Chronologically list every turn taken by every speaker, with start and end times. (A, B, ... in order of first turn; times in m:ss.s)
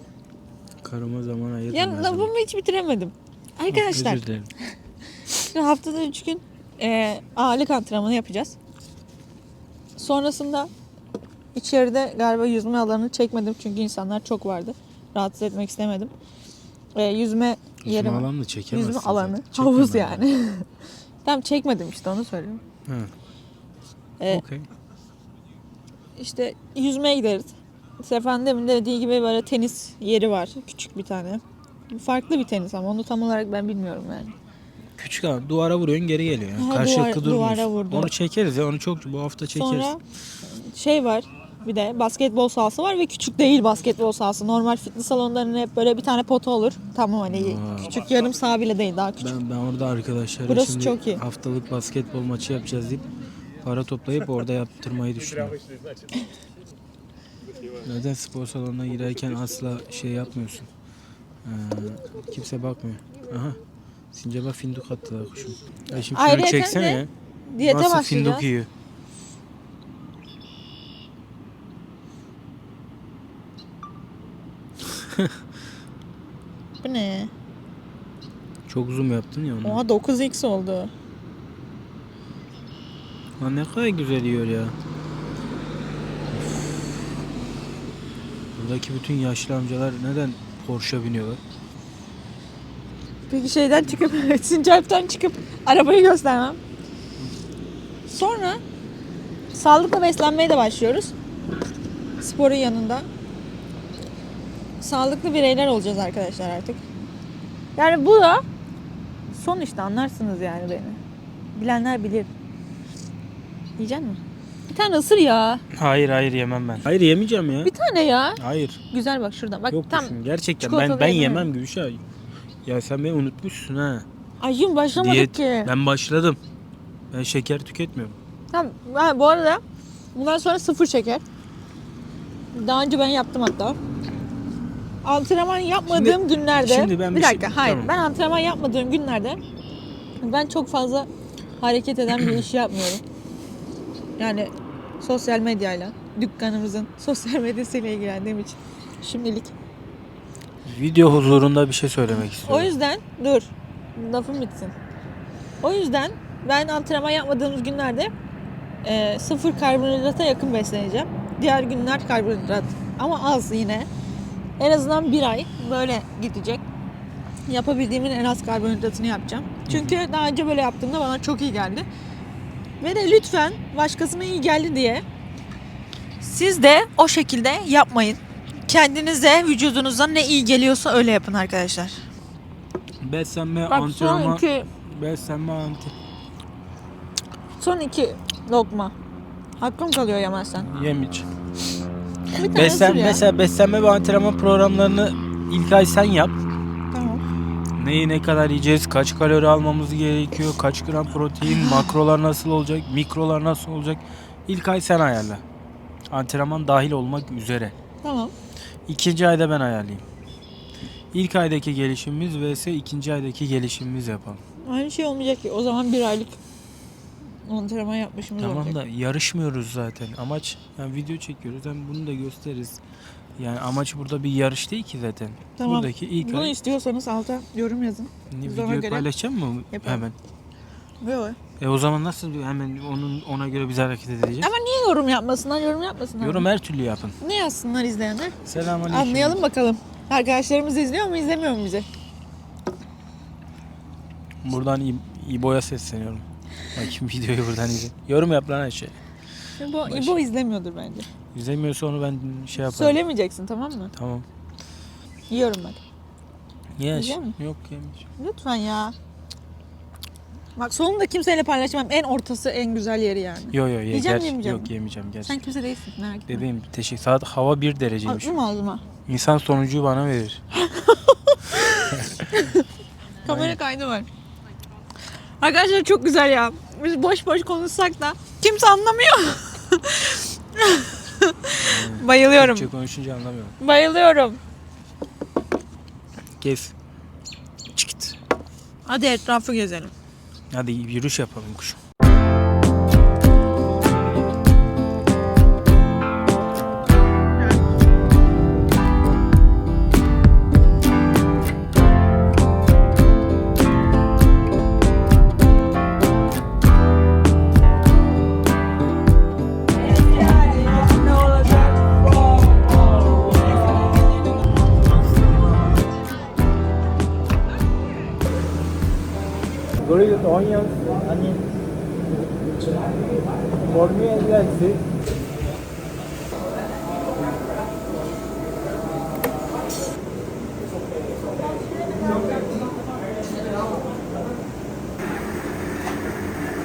0:00.8-0:02.3 A
0:01.7-0:04.2 B
0:03.7-0:04.5 A
0:05.3-0:08.6 B
0:10.0-0:10.7 B
0:11.5-0:16.1 B
0:17.0-0:20.7 B
0:17.8-0:20.2 A
0:21.2-0:22.6 B
0:22.9-0:23.1 A
0:24.3-0:24.7 A
0:26.2-0:34.3 B
0:35.0-0:39.9 A
0:36.6-0:38.1 B
0:39.5-0:49.3 B
0:47.3-0:48.0 A
0:49.2-0:53.1 A
0:50.5-0:51.2 B
0:53.6-0:55.6 A
0:57.8-1:00.7 A
1:01.4-1:03.6 A
1:04.1-1:07.1 A
1:06.1-1:08.4 B
1:07.6-1:08.7 A
1:16.8-1:17.3 B
1:18.7-1:19.8 A
1:19.6-1:20.9 B
1:23.4-1:24.7 A
1:26.3-1:26.8 A
1:28.5-1:31.4 A
1:33.3-1:36.6 B
1:38.1-1:38.6 B
1:39.5-1:41.1 B
1:42.2-1:43.0 B
1:44.8-1:46.8 B
1:47.8-1:48.4 B
1:49.3-1:51.0 B
1:51.5-1:52.3 B
1:53.8-1:55.6 B
1:55.7-1:57.7 A
1:57.6-1:58.4 B
1:58.4-1:58.8 A
1:58.9-2:01.5 B
1:59.7-2:02.0 A
2:02.6-2:04.0 A
2:04.4-2:05.7 B
2:04.9-2:06.4 A
2:07.1-2:08.2 A
2:08.5-2:09.6 B
2:10.1-2:11.2 B
2:12.5-2:13.8 B
2:15.0-2:19.4 B
2:15.9-2:17.9 A
2:20.2-2:23.0 B
2:24.2-2:29.5 B
2:30.6-2:32.7 A
2:32.4-2:34.7 B
2:35.6-2:38.1 B
2:38.8-2:43.9 B
2:44.6-2:46.6 B
2:47.5-2:51.9 B
2:49.7-2:50.0 A
2:52.8-2:55.0 B
2:56.2-3:02.0 B
3:03.0-3:05.9 A
3:03.7-3:04.7 B
3:07.6-3:08.9 B
3:09.6-3:10.7 B
3:10.6-3:11.3 A
3:12.3-3:13.2 B
3:12.5-3:16.3 A
3:16.9-3:17.2 B
3:17.8-3:25.4 A
3:21.5-3:21.9 B
3:26.1-3:27.7 A
3:28.0-3:28.3 B
3:28.9-3:30.0 A
3:31.1-3:34.4 A
3:34.6-3:36.4 B
3:37.4-3:38.8 B
3:38.4-3:42.8 A
3:43.4-3:46.5 A
3:45.6-3:49.0 B
3:48.3-3:50.2 A
3:49.7-3:50.0 B
3:51.0-3:51.4 B
3:51.6-3:54.5 A
3:54.4-3:56.4 B
3:56.2-3:57.2 A
3:57.2-3:58.4 B
3:58.4-3:59.4 A
3:58.9-4:01.9 B
4:04.4-4:09.0 A
4:09.6-4:11.1 B
4:09.8-4:10.2 A
4:11.3-4:13.0 A
4:12.6-4:13.9 B
4:13.9-4:14.2 A
4:15.3-4:15.8 B
4:16.8-4:18.0 A
4:16.9-4:17.3 B
4:18.2-4:18.9 B
4:20.6-4:24.7 B
4:23.5-4:25.4 A
4:25.2-4:26.4 B
4:26.3-4:28.4 A
4:28.0-4:28.8 B
4:29.1-4:30.4 A
4:30.5-4:32.7 B
4:33.2-4:33.6 A
4:33.2-4:34.1 B
4:35.4-4:42.7 B
4:41.5-4:43.6 A
4:43.6-4:44.4 B
4:46.4-4:46.7 A
4:47.7-4:48.2 A
4:48.8-4:49.9 B
4:50.5-4:51.8 A
5:09.9-5:12.0 B
5:14.8-5:15.9 A
5:19.8-5:21.4 A
5:23.6-5:24.8 A